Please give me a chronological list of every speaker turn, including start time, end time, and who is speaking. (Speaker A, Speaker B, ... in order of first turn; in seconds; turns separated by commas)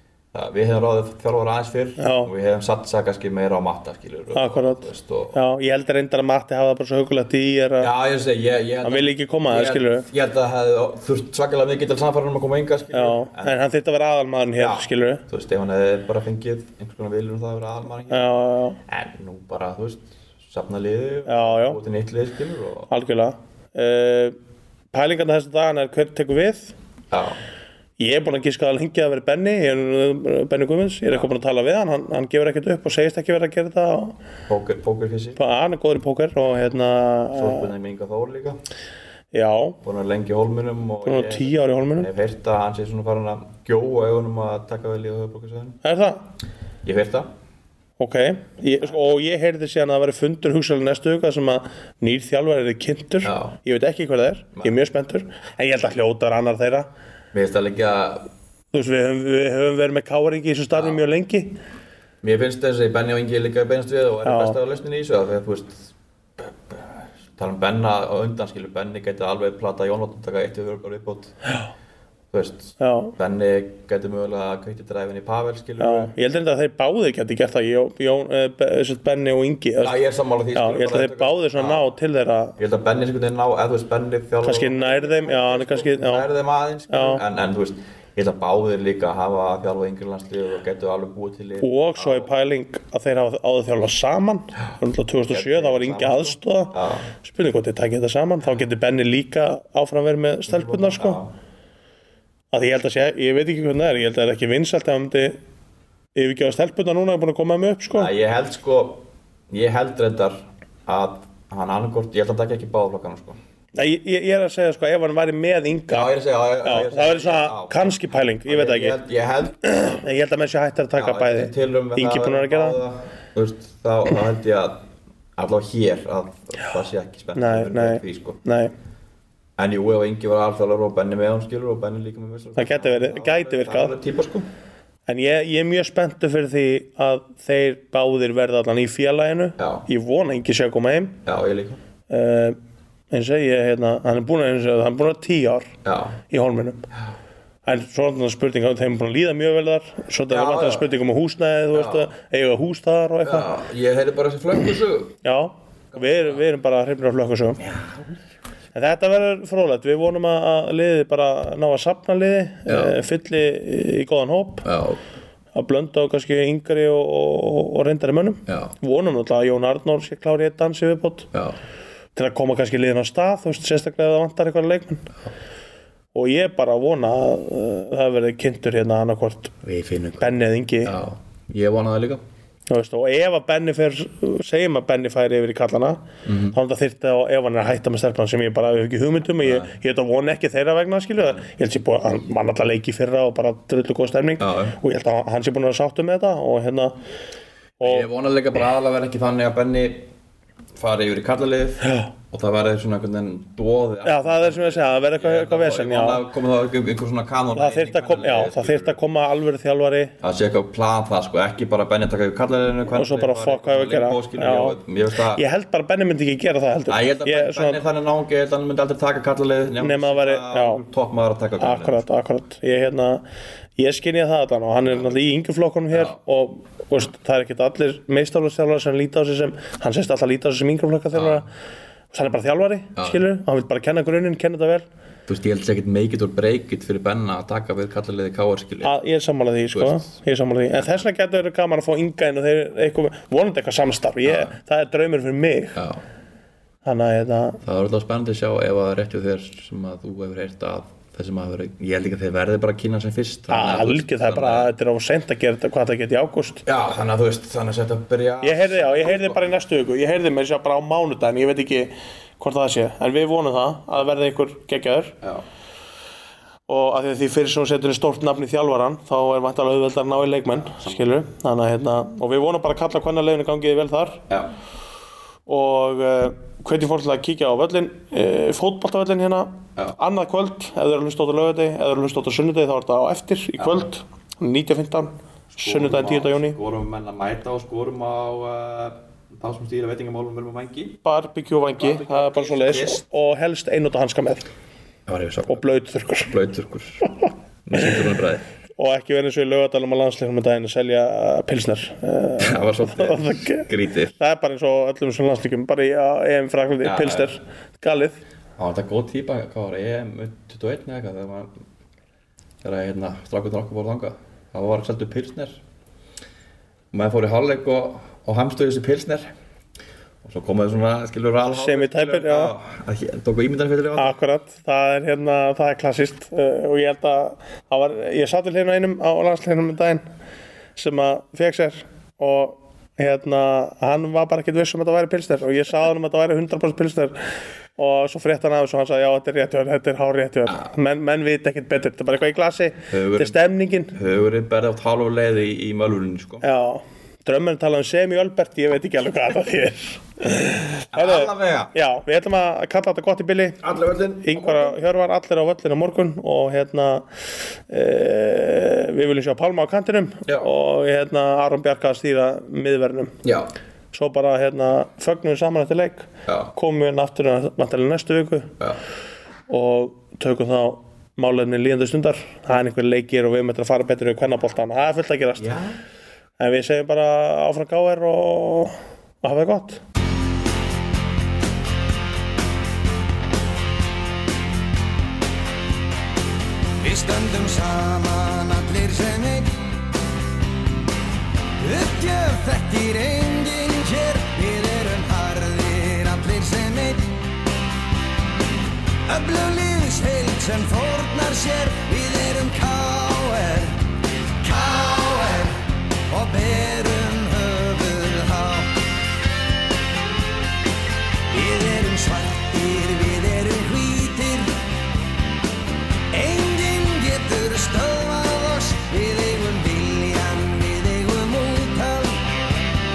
Speaker A: 0.3-5.4, Speaker B: 2.0-2.3, Speaker B: 4.3-7.9, Speaker A: 7.8-13.6, Speaker B: 8.8-10.1, Speaker B: 12.9-15.2, Speaker A: 14.6-18.3, Speaker B: 18.1-18.8, Speaker A: 18.9-22.9, Speaker B: 21.3-21.8, Speaker B: 22.9-24.4, Speaker B: 24.9-26.7, Speaker A: 27.1-27.4, Speaker B: 28.0-34.1, Speaker A: 34.5-35.4, Speaker B: 35.4-37.7, Speaker A: 37.3-38.6, Speaker B: 39.3-39.8, Speaker A: 39.8-45.8, Speaker B: 41.1-42.1, Speaker B: 45.8-46.2, Speaker A: 46.8-47.3, Speaker B: 48.0-56.9, Speaker A: 53.2-53.6, Speaker A: 57.3-58.3, Speaker B: 58.7-61.6, Speaker A: 60.7-61.0, Speaker A: 62.2-71.3, Speaker B: 64.2-64.6, Speaker A: 72.3-76.1, Speaker B: 72.8-73.2, Speaker B: 75.8-80.0, Speaker A: 79.8-81.8, Speaker B: 80.5-82.6, Speaker A: 82.6-92.3, Speaker B: 84.4-86.3, Speaker B: 86.9-87.2, Speaker B: 91.6-101.2, Speaker A: 95.3-97.1, Speaker A: 100.5-101.3, Speaker B: 102.5-105.4, Speaker B: 106.2-108.1, Speaker A: 107.9-113.4, Speaker B: 113.8-119.0, Speaker A: 115.9-120.1, Speaker B: 119.6-122.8, Speaker A: 121.0-124.8, Speaker A: 125.4-128.5, Speaker B: 127.4-128.7, Speaker A: 129.6-134.5, Speaker B: 132.6-133.9, Speaker B: 135.1-141.2, Speaker A: 139.6-139.9, Speaker A: 141.3-141.8, Speaker B: 142.1-142.6, Speaker B: 143.1-145.7, Speaker A: 145.8-146.2, Speaker B: 146.3-146.9, Speaker B: 147.7-153.5, Speaker A: 150.3-150.9, Speaker A: 151.7-152.1, Speaker A: 153.2-155.2, Speaker B: 155.2-157.6, Speaker A: 155.9-156.4, Speaker A: 157.6-158.2, Speaker B: 158.8-164.7, Speaker A: 162.7-163.0, Speaker A: 164.6-165.0, Speaker B: 165.6-171.3, Speaker A: 168.5-168.7, Speaker B: 172.2-175.1, Speaker B: 176.1-179.6, Speaker A: 179.6-182.2, Speaker B: 180.2-181.0, Speaker B: 182.7-197.0, Speaker A: 186.3-186.6, Speaker A: 189.4-189.7, Speaker A: 194.4-194.8, Speaker B: 197.8-198.1, Speaker A: 197.8-200.1, Speaker A: 200.8-209.0, Speaker B: 201.8-202.1, Speaker B: 204.0-206.2, Speaker B: 207.6-210.2, Speaker A: 210.2-215.4, Speaker B: 212.9-214.8, Speaker B: 215.3-217.8, Speaker A: 216.9-222.0, Speaker B: 219.8-220.8, Speaker B: 221.6-223.2, Speaker B: 223.8-231.5, Speaker A: 224.9-225.1, Speaker A: 225.9-226.2, Speaker A: 231.1-231.4, Speaker B: 232.1-234.8, Speaker A: 233.0-233.2, Speaker A: 235.3-238.9, Speaker B: 238.8-245.8, Speaker A: 239.7-240.1, Speaker A: 240.7-241.0, Speaker A: 244.2-244.6, Speaker A: 245.8-246.0, Speaker B: 246.8-247.6, Speaker A: 247.6-254.7, Speaker B: 253.5-256.6, Speaker A: 256.6-259.5, Speaker B: 258.4-265.2, Speaker B: 266.7-274.2, Speaker A: 270.6-271.1, Speaker B: 275.5-286.6, Speaker A: 283.6-283.9, Speaker A: 285.5-291.0, Speaker B: 291.0-294.5, Speaker A: 291.8-293.0, Speaker A: 295.1-295.7, Speaker B: 295.5-296.3, Speaker A: 296.2-297.1, Speaker A: 297.7-298.4, Speaker B: 298.8-308.2, Speaker A: 302.4-304.1, Speaker A: 306.8-307.4, Speaker A: 308.6-311.5, Speaker A: 312.6-315.6, Speaker A: 316.9-319.3, Speaker A: 320.2-324.1, Speaker B: 321.5-322.5, Speaker B: 324.0-330.0, Speaker B: 330.8-337.2, Speaker B: 337.8-344.0, Speaker A: 342.9-343.4, Speaker A: 343.9-346.4, Speaker B: 346.4-353.6, Speaker A: 350.9-351.7, Speaker A: 353.6-354.8, Speaker B: 354.2-357.1, Speaker B: 357.7-363.2, Speaker A: 363.2-363.5, Speaker B: 363.9-368.6, Speaker B: 369.5-375.6, Speaker A: 375.4-375.8, Speaker B: 376.4-379.8, Speaker C: 386.8-389.7, Speaker C: 391.6-397.1, Speaker C: 399.1-403.9, Speaker C: 404.4-408.8, Speaker C: 411.3-414.6, Speaker C: 416.1-422.2